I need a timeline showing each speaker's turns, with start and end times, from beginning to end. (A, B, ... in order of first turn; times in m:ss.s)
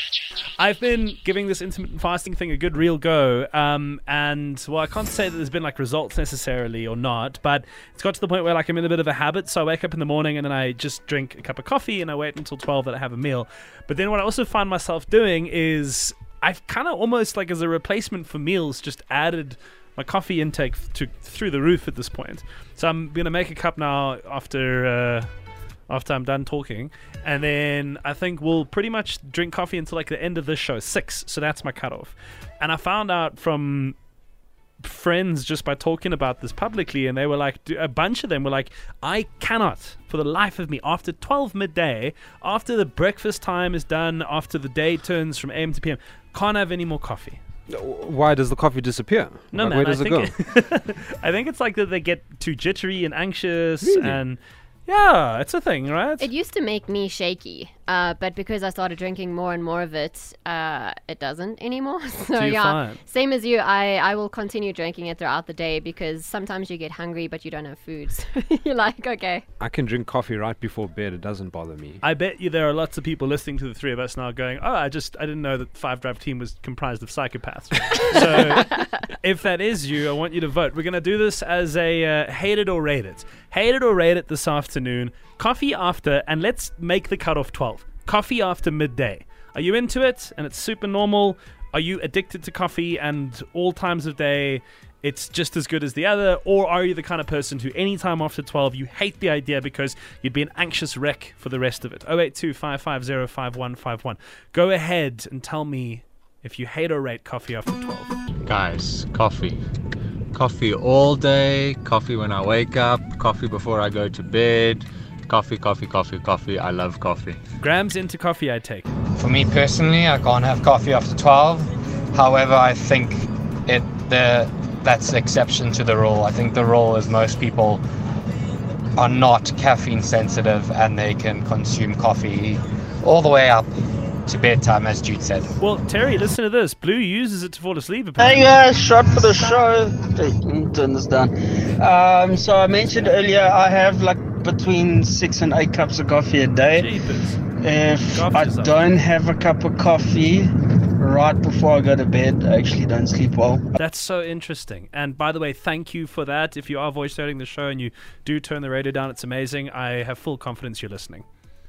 0:00.6-0:25.3 A
0:25.9-0:34.0 A
0:34.8-0:47.4 A
0:47.7-0:50.4 B
0:49.5-0:56.3 A
0:53.8-0:54.2 B
0:56.2-1:09.4 C
1:02.4-1:03.0 A
1:09.6-1:12.0 B
1:12.0-1:48.1 A
1:48.5-1:49.6 D
1:50.3-1:57.4 D
1:57.6-1:58.8 A
1:59.2-2:07.8 E
2:09.0-2:13.7 E
2:14.3-2:15.6 E
2:15.6-2:18.7 A
2:18.2-2:26.9 F
2:26.7-2:27.5 A
2:27.5-2:33.6 F
2:28.0-2:29.0 A
2:33.8-2:41.2 A